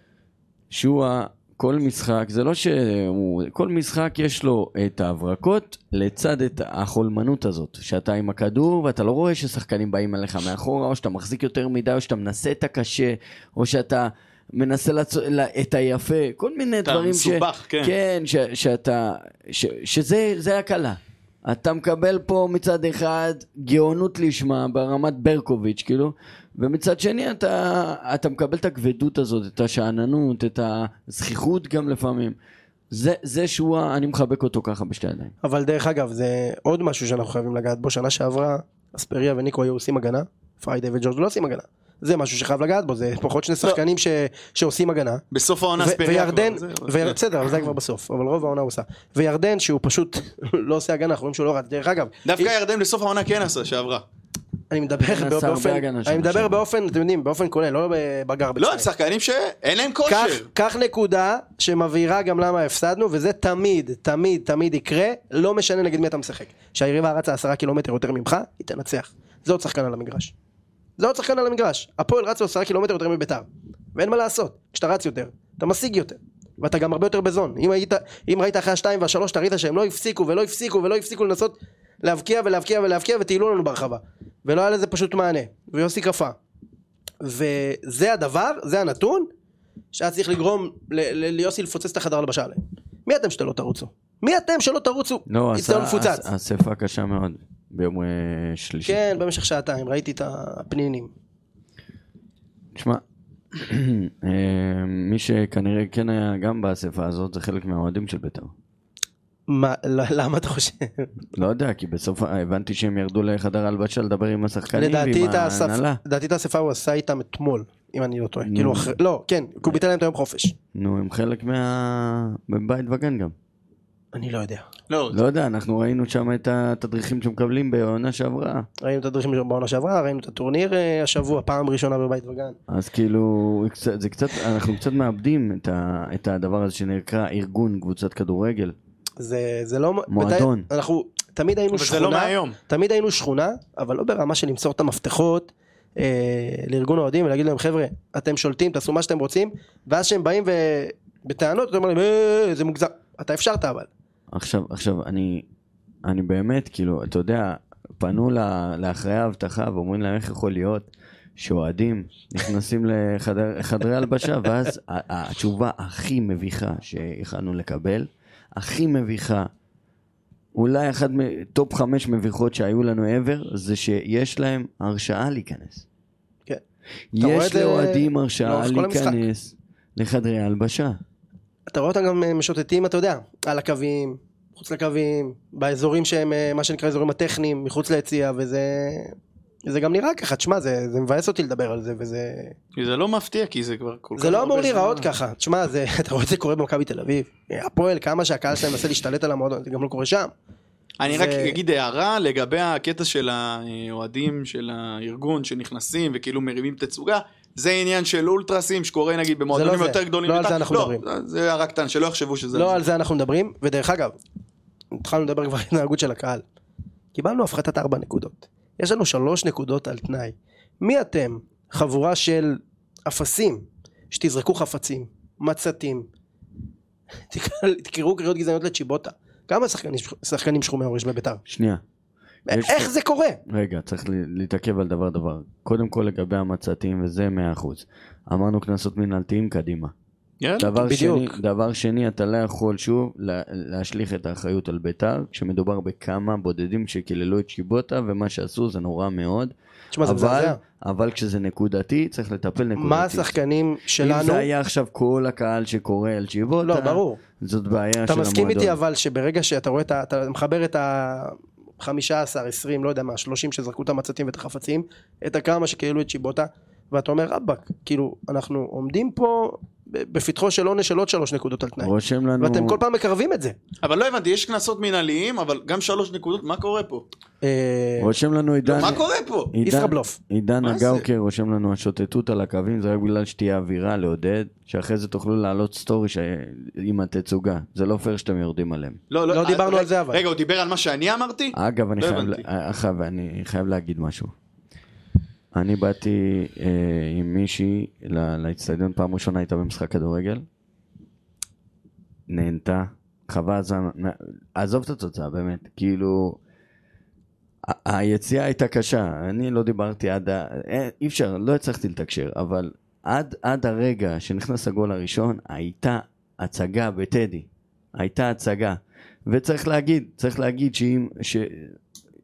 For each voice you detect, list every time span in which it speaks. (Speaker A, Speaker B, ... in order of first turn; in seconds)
Speaker A: 0.7-32.4, 32.9-35.3, 55.0-56.6, 95.3-99.0, 102.7-103.0, 103.5-108.5, 111.3-116.0, 118.4-118.9, 120.7-123.3, 125.1-128.7, 132.7-138.7, 140.1-140.7, 154.3-155.4, 156.0-169.5, 170.5-175.8, 177.1-181.0, 231.5-231.8, 232.5-232.9, 233.4-239.9, 240.6-253.3, 254.0-258.8, 271.8-272.8, 278.0-289.0, 291.5-294.3, 295.5-300.4, 302.3-306.4, 307.6-321.8
Speaker B: 16.8-17.9, 45.3-47.2, 52.2-54.0, 58.6-60.5, 124.9-125.2, 141.7-142.6, 192.8-195.1, 201.0-212.8, 240.4-240.7, 273.8-277.0, 278.6-279.5, 280.6-281.1, 289.1-292.4
Speaker C: 35.4-45.2, 45.8-52.5, 54.7-58.9, 60.0-70.3, 71.0-86.3, 87.2-89.3, 89.9-96.3, 98.8-101.1, 109.5-111.1, 114.7-120.5, 124.1-124.7, 128.8-132.6, 139.2-153.9, 177.2-179.2, 181.7-189.2, 189.7-192.5, 194.2-200.3, 201.1-201.6, 209.5-211.0, 212.5-214.2, 215.0-216.4, 217.1-226.1, 227.3-231.4, 232.5-233.4, 240.7-241.4, 249.9-250.6, 252.8-254.5, 256.6-257.2, 258.1-273.6, 277.4-278.1, 279.6-280.2, 289.3-290.2